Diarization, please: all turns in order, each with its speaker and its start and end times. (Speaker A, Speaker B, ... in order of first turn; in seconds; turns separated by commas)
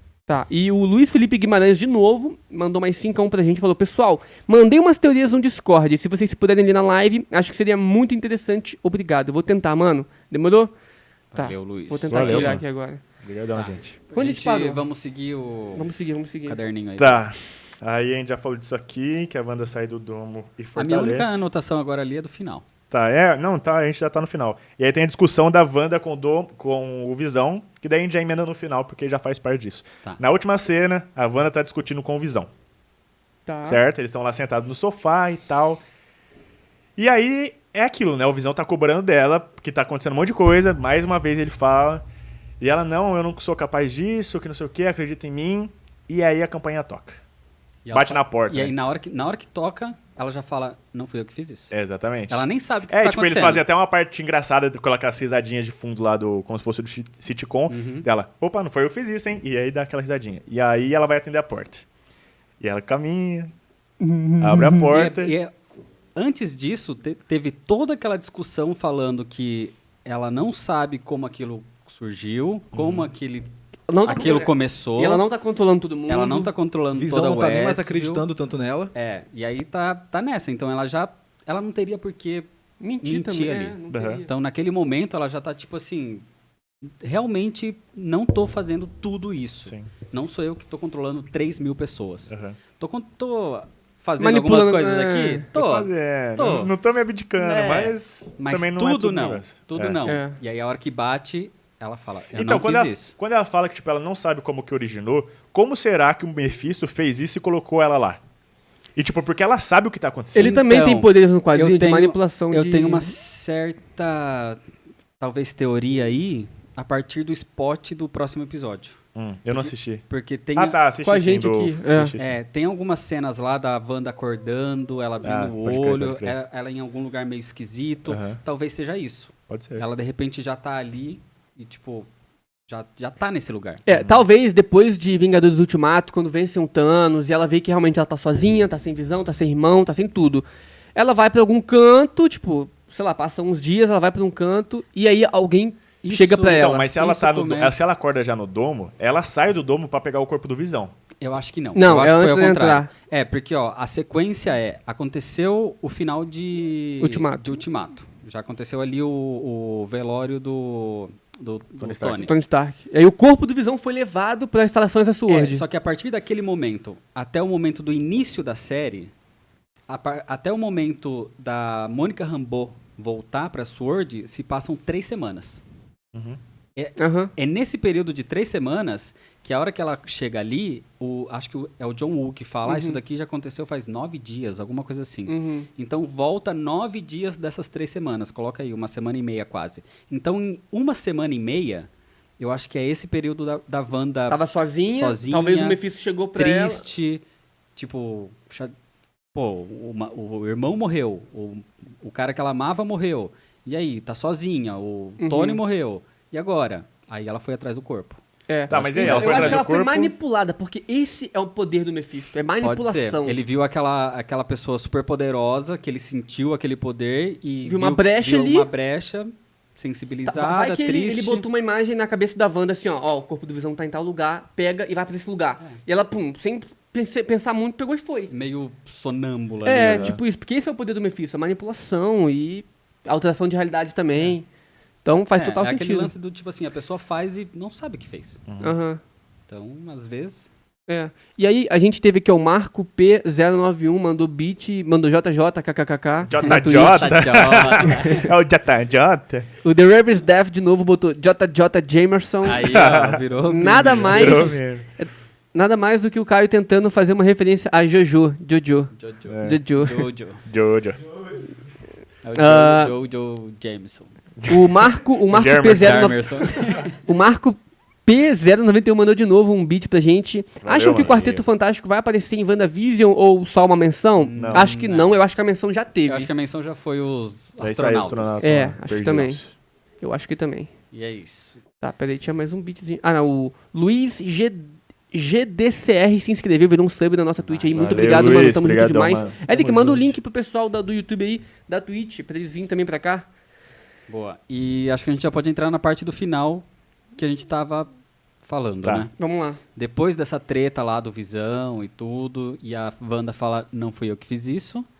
Speaker A: 0.3-10.7, Speaker B: 11.3-12.6, Speaker A: 11.3-13.0, Speaker C: 12.1-12.6, Speaker C: 13.2-14.0, Speaker B: 13.5-15.9, Speaker A: 14.1-14.8, Speaker A: 15.7-16.6, Speaker B: 16.4-17.2, Speaker C: 17.0-21.4, Speaker B: 20.8-22.6, Speaker C: 22.9-32.5, Speaker A: 33.5-33.8, Speaker C: 33.6-35.8, Speaker C: 37.0-42.0, Speaker C: 42.6-47.2, Speaker B: 47.8-51.7, Speaker C: 47.9-48.7, Speaker C: 51.7-61.8, Speaker B: 52.3-53.6, Speaker B: 57.7-58.1, Speaker C: 62.6-63.5, Speaker A: 64.0-64.9, Speaker C: 64.4-65.3, Speaker B: 64.8-65.5, Speaker B: 66.2-73.5, Speaker C: 72.7-73.1, Speaker A: 73.9-76.5, Speaker B: 74.0-75.2, Speaker B: 76.1-78.2, Speaker D: 76.9-78.9, Speaker B: 78.9-82.5, Speaker A: 82.8-84.3, Speaker B: 83.0-86.2, Speaker C: 83.9-84.2, Speaker B: 86.8-96.7, Speaker C: 89.6-89.9, Speaker C: 92.3-92.6, Speaker A: 94.2-95.5, Speaker C: 95.5-100.0, Speaker A: 97.4-97.9, Speaker B: 97.5-103.1, Speaker A: 100.0-100.4, Speaker C: 102.3-108.2, Speaker C: 109.0-110.6, Speaker A: 110.3-113.1, Speaker B: 110.3-114.6, Speaker B: 115.2-119.0, Speaker C: 119.1-120.0, Speaker B: 119.5-120.8, Speaker C: 120.5-122.3, Speaker A: 121.0-122.1, Speaker B: 122.2-132.1, Speaker C: 125.2-126.3, Speaker C: 128.1-128.4, Speaker C: 129.5-129.8, Speaker B: 132.7-133.8, Speaker A: 133.8-146.9, Speaker C: 133.9-134.2, Speaker B: 146.0-147.8, Speaker C: 146.4-150.9, Speaker B: 151.2-162.3, Speaker A: 151.7-152.9, Speaker A: 157.0-157.5, Speaker C: 161.8-162.3, Speaker A: 162.2-165.6, Speaker B: 165.3-169.1, Speaker B: 169.9-175.6, Speaker C: 176.1-176.4, Speaker B: 176.8-195.8, Speaker A: 177.0-177.3, Speaker A: 182.7-183.0, Speaker A: 185.3-185.7, Speaker A: 194.3-196.8, Speaker B: 196.3-197.2, Speaker B: 197.8-198.7, Speaker B: 199.3-209.7, Speaker A: 205.2-205.6, Speaker A: 208.5-213.4, Speaker C: 208.7-210.1, Speaker B: 212.6-221.4, Speaker A: 217.6-218.7, Speaker A: 220.3-228.3, Speaker B: 228.3-230.2, Speaker A: 229.6-234.4, Speaker C: 229.8-230.2, Speaker A: 235.0-236.1, Speaker B: 235.3-238.4, Speaker C: 238.5-238.7, Speaker A: 238.6-239.0, Speaker B: 239.5-240.5, Speaker A: 240.9-248.3, Speaker C: 246.3-249.5, Speaker B: 246.4-248.3, Speaker A: 249.6-252.8, Speaker B: 252.4-254.6, Speaker C: 252.6-253.2, Speaker A: 253.4-258.9, Speaker C: 253.9-254.8, Speaker B: 258.9-260.4, Speaker C: 259.2-259.6, Speaker A: 259.4-260.1, Speaker C: 260.4-261.0, Speaker B: 262.2-264.1, Speaker A: 262.3-262.9, Speaker C: 264.4-266.1, Speaker A: 264.5-276.3, Speaker B: 265.6-266.9, Speaker C: 270.6-271.4, Speaker B: 274.2-275.2, Speaker C: 274.4-274.7, Speaker B: 276.1-278.4, Speaker C: 277.6-279.5, Speaker A: 278.4-279.4, Speaker A: 280.0-280.7, Speaker B: 280.9-281.6, Speaker A: 281.8-293.2, Speaker B: 287.4-288.6, Speaker C: 287.7-290.1, Speaker B: 294.1-297.9, Speaker B: 298.4-299.1, Speaker A: 299.2-299.6, Speaker B: 299.8-304.9